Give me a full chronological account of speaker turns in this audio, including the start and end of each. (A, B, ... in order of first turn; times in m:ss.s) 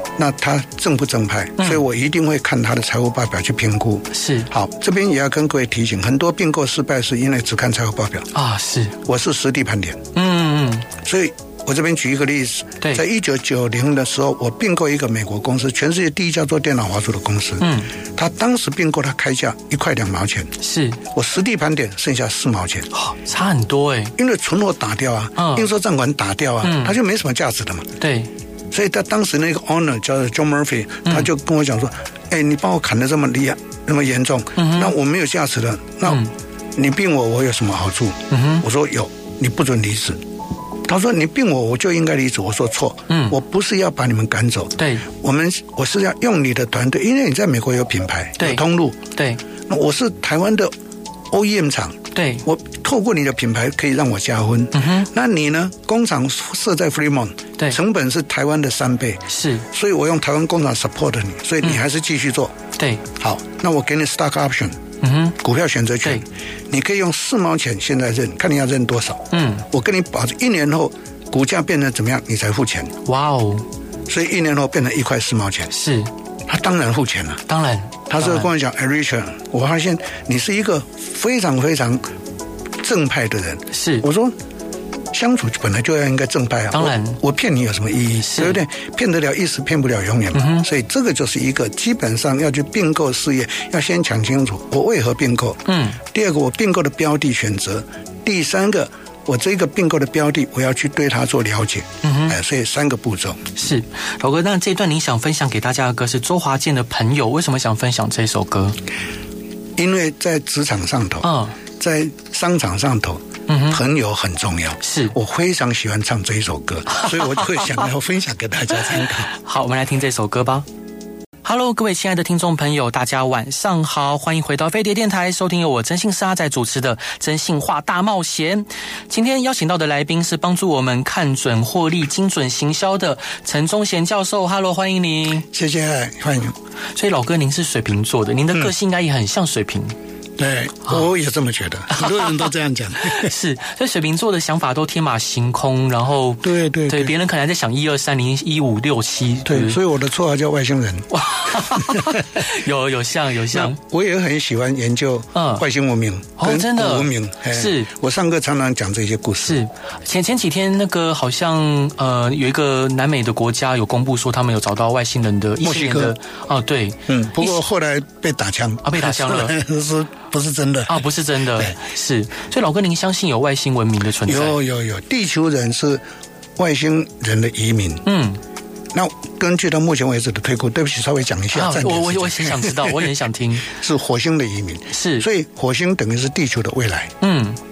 0:00.2-0:08.3 A
0:04.1-0:04.5 B
0:08.3-0:09.0 B
0:09.0-0:10.0 A
0:10.1-0:10.9 B
0:11.0-0:20.5 A
0:17.6-0:17.9 B
0:20.6-0:21.0 B
0:21.1-0:22.9 A
0:22.9-0:24.1 B
0:24.2-0:27.9 A
0:25.4-0:25.7 B
0:26.6-0:26.9 B
0:28.0-0:28.3 B
0:28.7-0:40.2 A
0:34.6-0:34.9 B
0:38.3-0:38.6 B
0:40.8-0:49.0 A
0:43.1-0:43.4 B
0:44.8-0:45.0 B
0:48.4-0:49.4 B
0:49.7-0:50.7 A
0:51.3-1:02.5 A
0:52.1-0:52.4 B
0:54.7-0:55.1 B
0:59.3-0:59.6 B
1:02.8-1:03.0 B
1:03.1-1:04.8 A
1:05.0-1:05.4 B
1:05.4-1:13.0 A
1:09.3-1:09.6 B
1:13.0-1:13.6 B
1:14.1-1:15.7 A
1:15.7-1:16.1 B
1:16.5-1:17.4 A
1:17.5-1:18.5 B
1:18.1-1:22.0 A
1:22.8-1:24.3 A
1:23.7-1:24.0 B
1:25.1-1:43.5 A
1:26.7-1:27.2 B
1:28.2-1:28.6 B
1:30.3-1:30.7 B
1:35.7-1:36.0 B
1:42.0-1:42.4 B
1:43.6-1:48.8 B
1:49.8-1:59.3 A
1:51.2-1:51.5 B
1:53.5-1:53.8 B
1:54.8-1:55.1 B
1:56.9-1:57.4 B
1:59.0-2:00.6 B
2:01.4-2:15.5 B
2:15.5-2:16.5 A
2:17.0-2:19.9 B
2:20.4-2:23.3 A
2:21.9-2:22.5 B
2:23.0-2:29.8 B
2:26.4-2:27.1 A
2:29.4-2:32.4 A
2:31.1-2:33.8 B
2:33.5-2:39.6 A
2:35.3-2:35.6 B
2:36.4-2:37.9 B
2:39.4-2:47.6 B
2:45.6-2:46.1 A
2:47.1-2:51.7 A
2:48.8-2:49.6 B
2:50.9-2:54.6 B
2:54.2-2:56.0 A
2:56.6-2:58.0 A
2:58.0-2:58.4 B
2:58.9-3:03.1 A
3:01.5-3:03.7 B
3:03.6-3:07.1 A
3:04.9-3:05.3 B
3:07.2-3:07.6 B